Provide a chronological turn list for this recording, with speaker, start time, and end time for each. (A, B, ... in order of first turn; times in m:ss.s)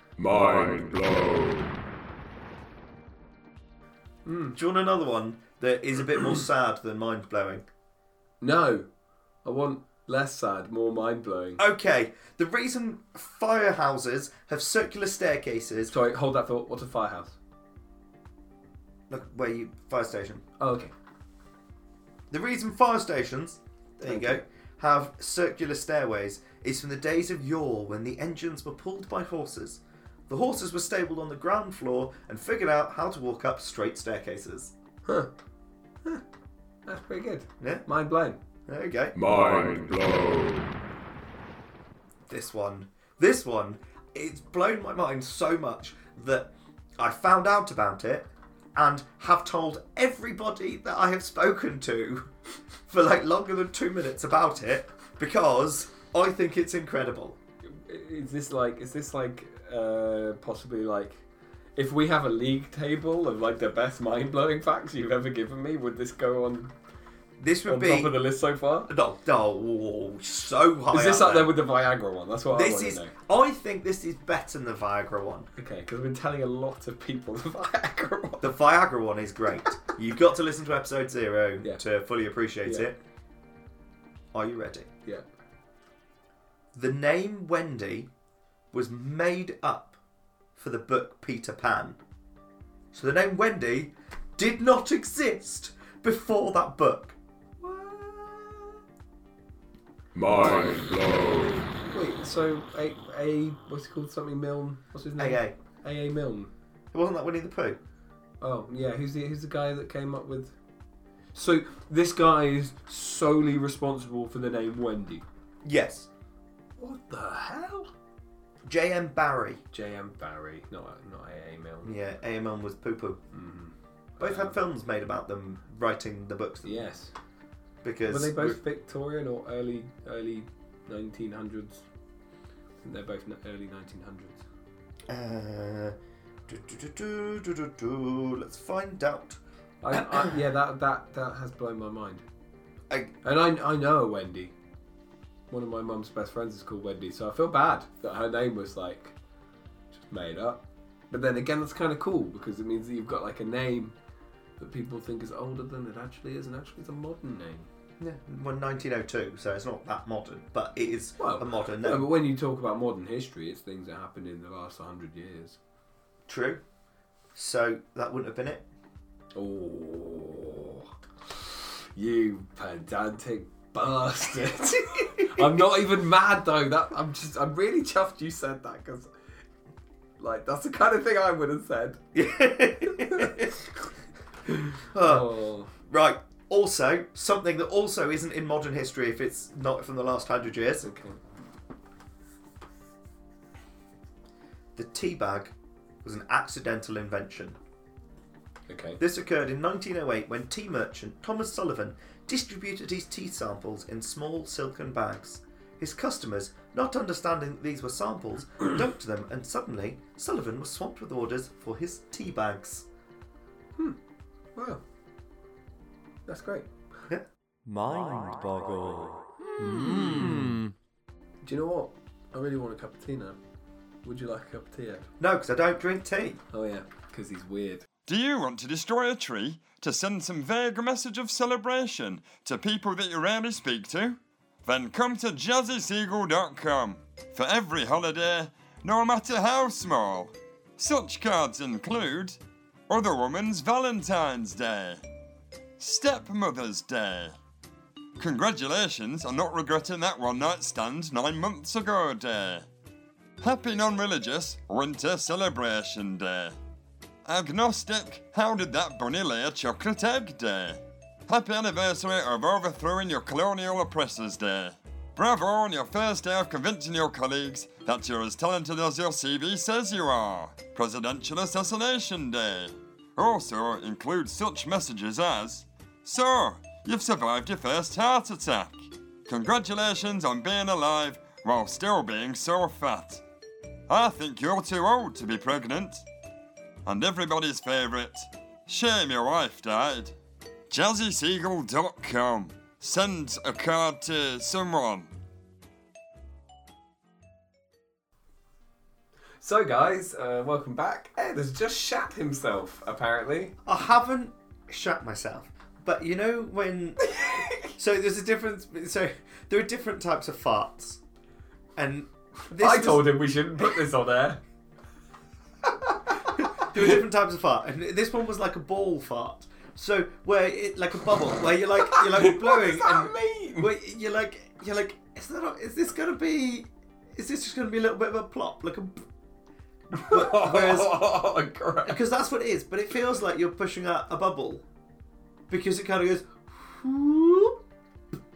0:00.2-0:01.8 A
0:04.3-0:04.6 B
0:04.6-0:07.6 C
0:08.4-0:08.9 B
0:09.4-0:11.6 B
0:11.6-0:15.9 C
0:15.9-0:17.4 B
0:19.1-0:20.4 C
0:20.6-0:20.9 B
0:22.3-0:34.7 C
0:24.0-0:24.4 B
0:35.1-0:35.3 B
0:36.9-0:38.4 B
0:37.6-0:37.9 C
0:38.7-0:39.2 C
0:39.2-0:40.7 A
0:42.3-0:52.3 C
0:52.9-0:57.4 C
0:57.6-1:01.2 B
1:01.8-1:06.7 B
1:07.4-1:08.2 C
1:07.7-1:08.9 B
1:08.9-1:11.6 C
1:10.9-1:13.1 B
1:12.5-1:15.5 C
1:15.6-1:18.6 B
1:18.4-1:23.0 C
1:22.6-1:22.9 B
1:24.3-1:24.9 C
1:26.7-1:28.1 C
1:28.7-1:30.0 C
1:30.6-1:32.0 C
1:32.9-1:38.8 C
1:40.2-1:41.7 A
1:41.9-1:46.5 B
1:45.2-1:45.6 C
1:46.9-1:47.8 C
1:48.4-1:50.5 B
1:51.3-1:55.2 B
1:55.6-1:56.1 C
1:56.8-1:57.9 B
1:58.6-1:59.6 C
1:59.7-2:01.9 B
2:01.8-2:03.2 C
2:03.3-2:04.6 B
2:04.2-2:06.8 C
2:06.6-2:07.1 B
2:07.8-2:08.6 C
2:08.1-2:11.8 B
2:12.8-2:14.4 B
2:15.1-2:16.0 C
2:16.5-2:19.4 C
2:19.8-2:22.2 B
2:19.9-2:20.3 C
2:23.2-2:24.5 B
2:25.5-2:29.2 B
2:29.9-2:34.0 B
2:34.6-2:37.7 B
2:38.0-2:42.1 C
2:41.2-2:45.6 B
2:46.3-2:46.6 C
2:47.4-2:48.7 C
2:49.4-2:59.1 B
2:55.0-2:55.4 C
3:00.2-3:02.0 B
3:02.1-3:03.5 C
3:02.9-3:03.6 B
3:04.5-3:05.7 B
3:04.9-3:10.9 C
3:10.8-3:11.2 B
3:14.8-3:17.6 C
3:18.7-3:19.0 B
3:19.0-3:32.9 C
3:34.6-3:34.8 B
3:36.3-3:36.7 B
3:37.1-3:40.6 C
3:39.6-3:40.6 B
3:41.4-3:43.4 B
3:44.0-3:45.1 B
3:45.2-3:46.4 C
3:46.5-3:47.9 B
3:48.1-4:05.0 D
4:05.8-4:07.4 D
4:08.2-4:12.7 D
4:13.4-4:16.6 D
4:17.2-4:43.2 D
4:43.9-4:46.0 D
4:46.8-4:50.1 D
4:50.7-4:55.1 D
4:59.4-5:03.6 B
5:03.6-5:07.1 C
5:07.0-5:07.8 B
5:07.6-5:11.0 C
5:11.8-5:13.8 C
5:12.5-5:14.4 B
5:16.3-5:16.6 B
5:16.3-5:29.1 C
5:21.8-5:23.7 B
5:29.9-5:32.0 B
5:30.0-5:31.0 C
5:31.9-5:34.6 C
5:35.5-5:37.6 C